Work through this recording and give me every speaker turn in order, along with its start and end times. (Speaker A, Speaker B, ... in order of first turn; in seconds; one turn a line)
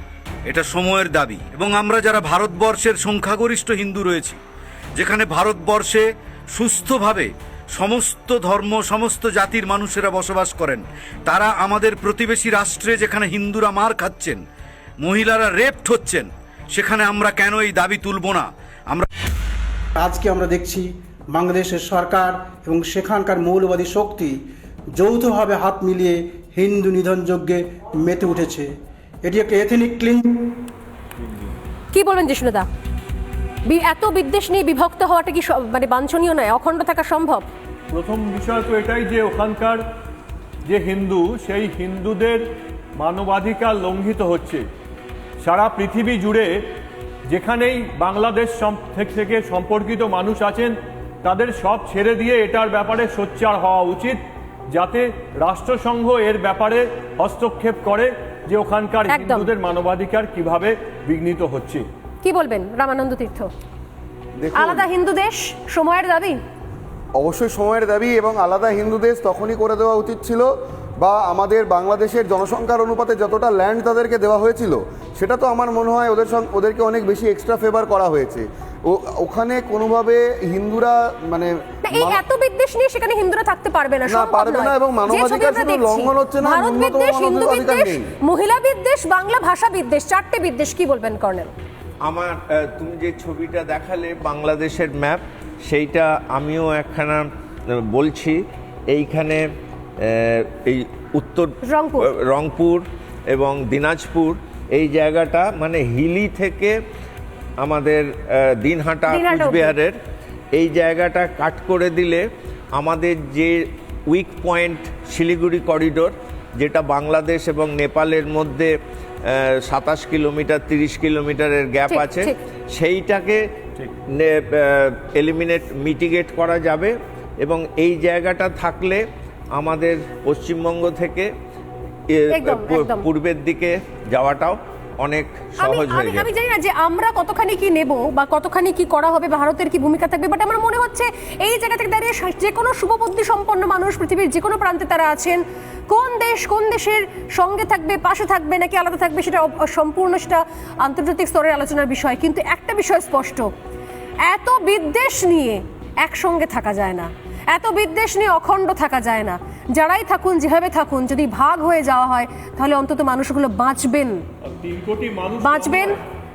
Speaker A: 0.5-4.4
Speaker A: 5.0-14.4
Speaker A: 15.0-19.1
Speaker B: 19.9-30.4
Speaker C: 31.9-32.6
Speaker C: 33.6-37.4
Speaker D: 37.9-39.8
Speaker D: 40.6-42.4
Speaker D: 43.0-44.7
Speaker D: 45.4-46.6
Speaker D: 47.3-61.9
Speaker C: 59.1-59.5
Speaker C: 62.2-63.5
Speaker E: 64.4-64.9
Speaker C: 64.5-66.4
Speaker E: 67.2-82.2
Speaker C: 81.8-91.5
Speaker E: 84.1-88.0
Speaker F: 92.0-99.5
Speaker F: 100.0-106.8
Speaker C: 101.6-102.1
Speaker F: 107.6-110.0
Speaker C: 109.1-109.8
Speaker F: 110.5-131.3
Speaker C: 121.9-122.4
Speaker F: 132.1-136.3
Speaker C: 132.3-133.1
Speaker C: 135.6-153.5
Speaker C: 154.2-164.2
Speaker D: 164.4-165.9
Speaker C: 165.4-165.9